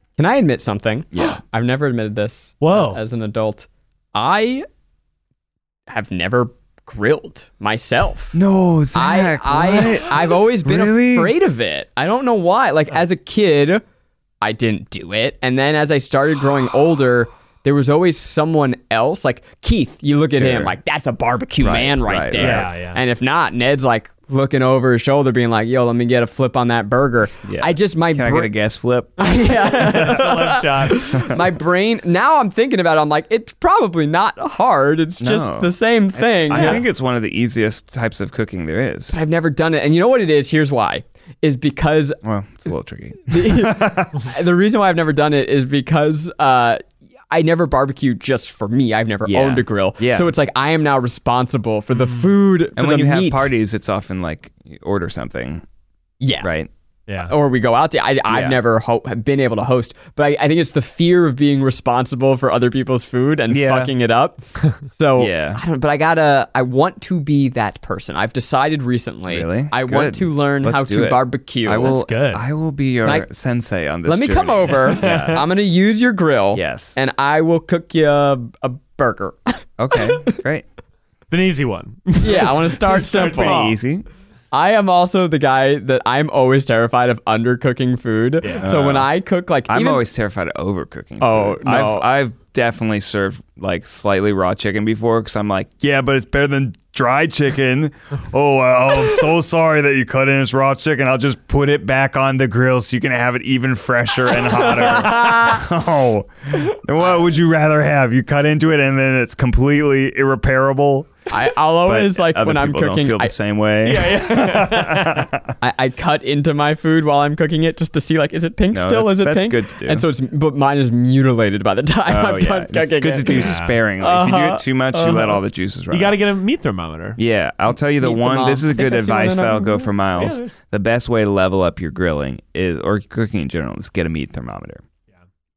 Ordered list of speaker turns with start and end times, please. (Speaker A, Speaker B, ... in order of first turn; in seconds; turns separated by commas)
Speaker A: 0.2-4.7, Speaker B: 1.1-1.4, Speaker C: 2.6-3.0, Speaker A: 5.9-8.4, Speaker B: 8.3-11.3, Speaker A: 8.9-13.8, Speaker A: 14.4-28.5, Speaker B: 20.3-20.7, Speaker B: 21.6-22.7, Speaker C: 22.4-23.0, Speaker B: 27.4-30.4, Speaker A: 29.2-36.8, Speaker C: 29.6-31.1, Speaker B: 35.2-39.2, Speaker C: 36.5-36.8, Speaker A: 39.1-42.2, Speaker B: 42.2-44.2, Speaker A: 43.3-53.5, Speaker B: 49.2-50.3, Speaker C: 51.9-52.3, Speaker B: 52.8-55.6, Speaker A: 56.2-56.5, Speaker B: 56.4-56.7, Speaker C: 57.1-57.3, Speaker A: 57.3-72.0, Speaker B: 58.3-58.6, Speaker B: 63.5-63.9, Speaker B: 65.2-65.6, Speaker B: 69.3-75.4, Speaker C: 71.8-72.4, Speaker A: 74.0-80.4, Speaker C: 75.0-75.4, Speaker B: 76.5-77.0, Speaker B: 79.8-80.7, Speaker C: 81.3-83.8, Speaker A: 82.2-83.7, Speaker B: 83.3-84.0, Speaker A: 84.5-90.0, Speaker B: 88.6-89.1, Speaker B: 89.7-111.2, Speaker A: 91.2-92.1, Speaker A: 104.8-105.6, Speaker A: 111.3-113.3, Speaker B: 111.7-115.5, Speaker C: 113.8-115.3, Speaker A: 115.6-125.4, Speaker B: 118.7-120.0, Speaker B: 122.0-126.2, Speaker C: 123.3-123.8, Speaker C: 125.9-127.2, Speaker B: 127.2-134.8, Speaker A: 128.0-129.9, Speaker C: 130.2-130.6